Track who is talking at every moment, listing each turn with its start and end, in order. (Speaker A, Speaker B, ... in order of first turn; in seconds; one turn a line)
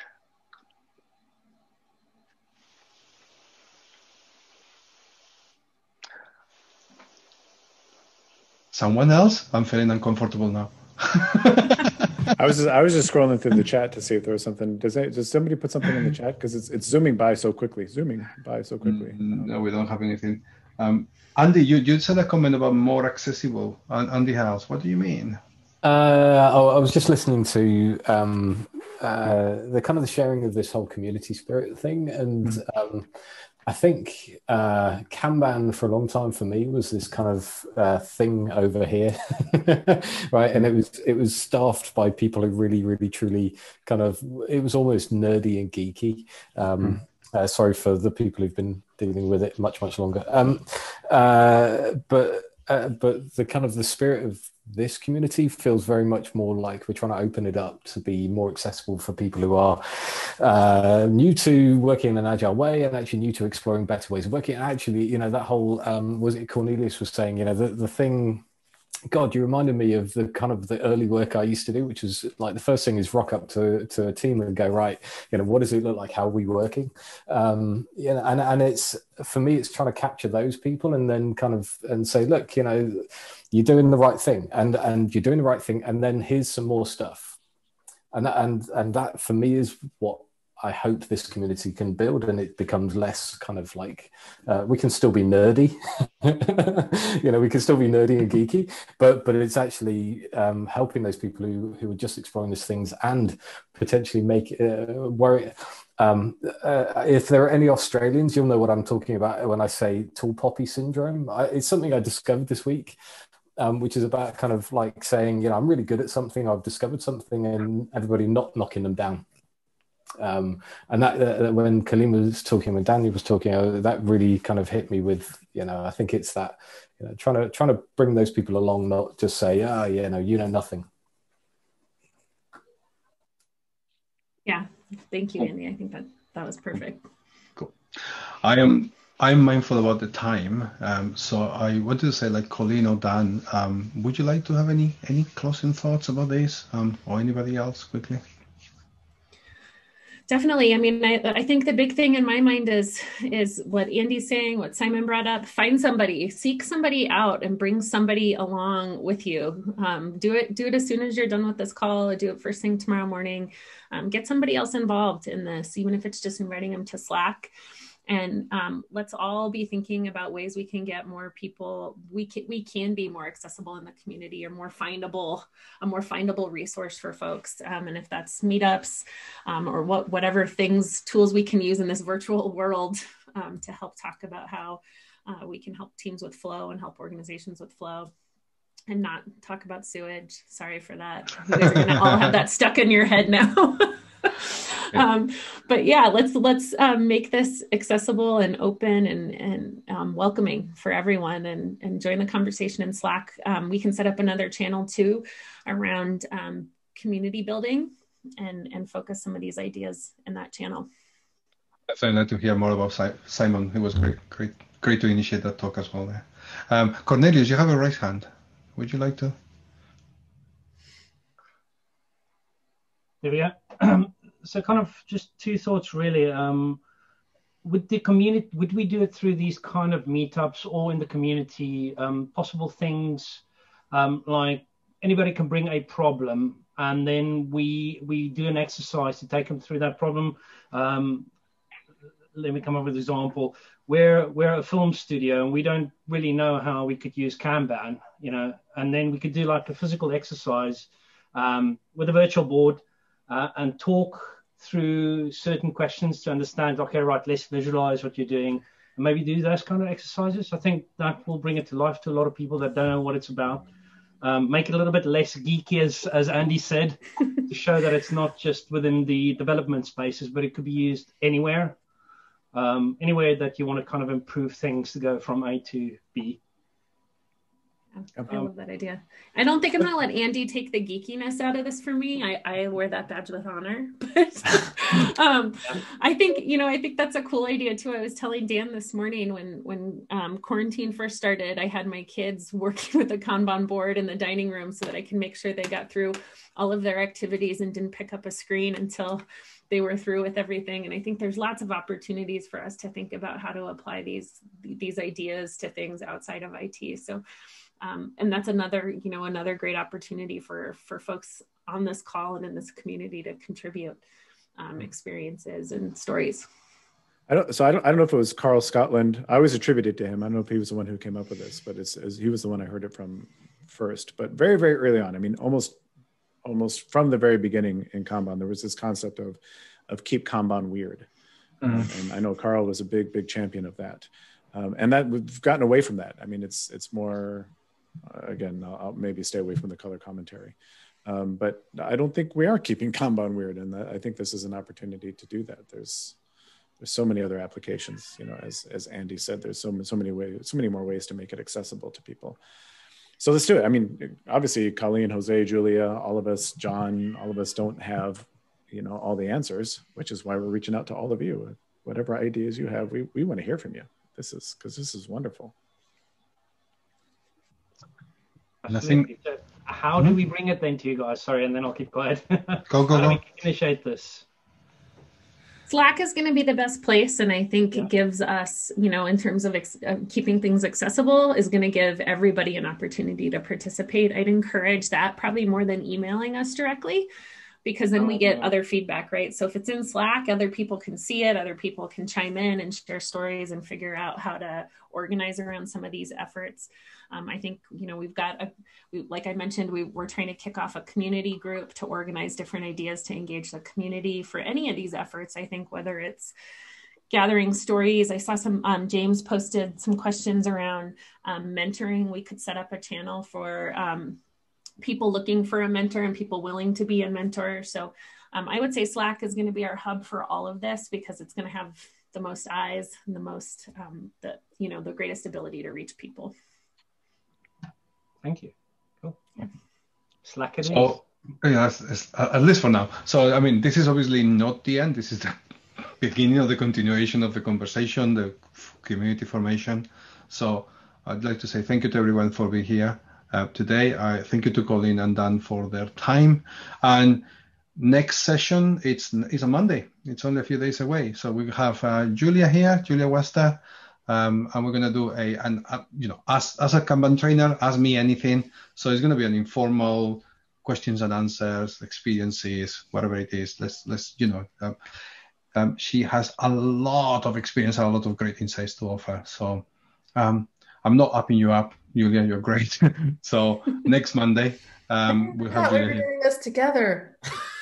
Speaker A: 8.7-12.0
Speaker B: 12.3-19.5
Speaker A: 18.8-25.4
Speaker C: 25.8-33.1
Speaker C: 33.7-68.4
Speaker C: 69.1-87.4
Speaker C: 88.1-113.0
Speaker C: 113.6-119.2
Speaker C: 120.2-130.9
Speaker D: 134.5-137.1
Speaker A: 137.6-148.2
Speaker D: 150.3-167.5
Speaker D: 168.1-188.1
Speaker D: 188.9-210.9
Speaker A: 211.9-219.3
Speaker E: 223.2-226.8
Speaker E: 227.6-241.3
Speaker E: 242.3-263.6
Speaker E: 264.2-271.8
Speaker E: 272.5-276.4
Speaker D: 278.0-307.2
Speaker D: 307.8-314.0
Speaker D: 314.6-316.5
Speaker B: 317.3-325.8
Speaker B: 326.4-331.1
Speaker A: 331.6-331.9
Speaker B: 331.7-337.5
Speaker B: 338.1-346.2
Speaker B: 346.8-352.4
Speaker B: 353.2-365.5
Speaker E: 368.6-374.2
Speaker A: 368.7-369.1
Speaker A: 372.7-373.2
Speaker D: 375.7-387.1
Speaker D: 387.6-406.3
Speaker E: 388.0-388.5
Speaker D: 407.1-414.2
Speaker D: 414.8-426.3
Speaker E: 428.2-429.5
Speaker E: 430.2-431.0
Speaker A: 430.6-447.2
Speaker A: 447.8-464.8
Speaker A: 465.6-469.6
Speaker A: 470.2-476.1
Speaker F: 475.1-477.2